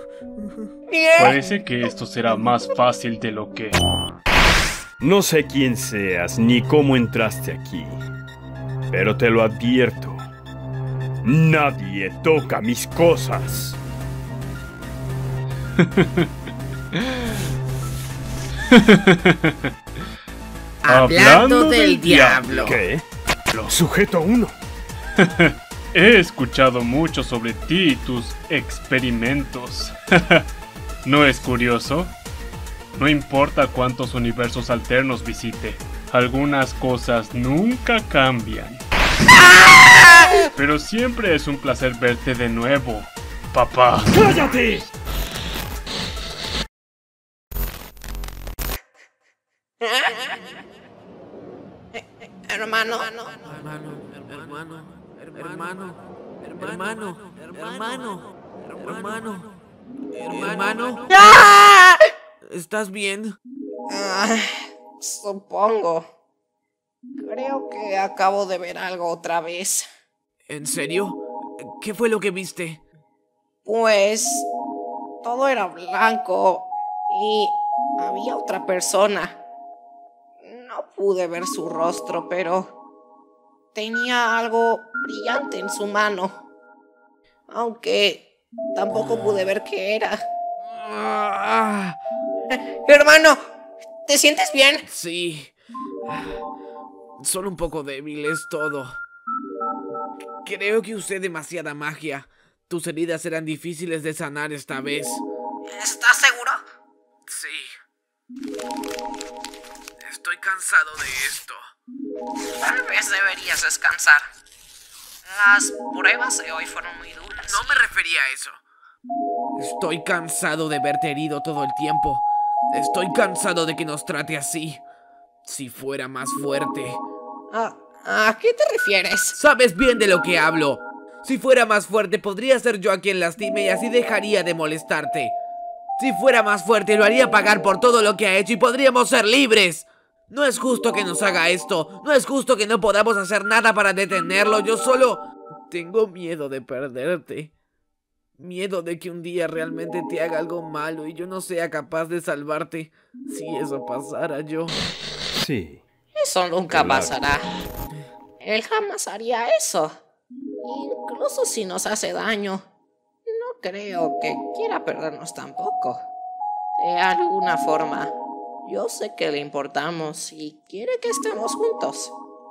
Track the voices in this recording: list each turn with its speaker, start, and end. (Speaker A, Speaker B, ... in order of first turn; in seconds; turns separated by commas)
Speaker A: 0.9-1.5, Speaker B: 1.2-3.8, Speaker C: 5.0-8.0, Speaker C: 8.9-10.2, Speaker C: 11.2-13.8, Speaker B: 15.8-16.3, Speaker B: 18.7-19.7, Speaker D: 20.8-22.8, Speaker B: 20.9-22.8, Speaker C: 22.6-23.1, Speaker C: 23.7-24.6, Speaker B: 25.2-30.5, Speaker B: 31.1-32.2, Speaker B: 32.9-38.8, Speaker A: 39.8-40.4, Speaker B: 40.5-44.3, Speaker C: 44.1-44.9, Speaker A: 49.8-50.5, Speaker A: 51.9-53.4, Speaker D: 53.5-59.5, Speaker D: 60.1-61.1, Speaker A: 61.1-62.0, Speaker D: 62.4-63.4, Speaker A: 63.9-66.1, Speaker A: 67.2-69.9, Speaker D: 70.5-72.8, Speaker A: 73.7-74.5, Speaker A: 75.2-79.4, Speaker A: 80.4-82.7, Speaker A: 83.7-86.4, Speaker A: 87.5-90.2, Speaker D: 88.9-89.5, Speaker D: 90.6-92.0, Speaker A: 92.5-93.4, Speaker A: 94.0-94.8, Speaker D: 94.9-95.5, Speaker D: 96.1-96.4, Speaker D: 97.2-99.0, Speaker D: 100.5-105.2, Speaker A: 105.7-106.6, Speaker D: 107.3-107.7, Speaker D: 110.0-111.7, Speaker A: 112.6-114.2, Speaker A: 115.3-117.9, Speaker D: 117.4-118.6, Speaker D: 119.6-124.8, Speaker D: 125.5-127.0, Speaker A: 127.5-129.4, Speaker D: 129.4-135.3, Speaker D: 136.0-147.5, Speaker D: 148.4-154.8, Speaker C: 155.4-155.8, Speaker A: 156.2-157.5, Speaker C: 156.7-157.2, Speaker A: 158.4-160.0, Speaker A: 160.6-162.6, Speaker A: 163.3-166.0, Speaker A: 166.8-172.2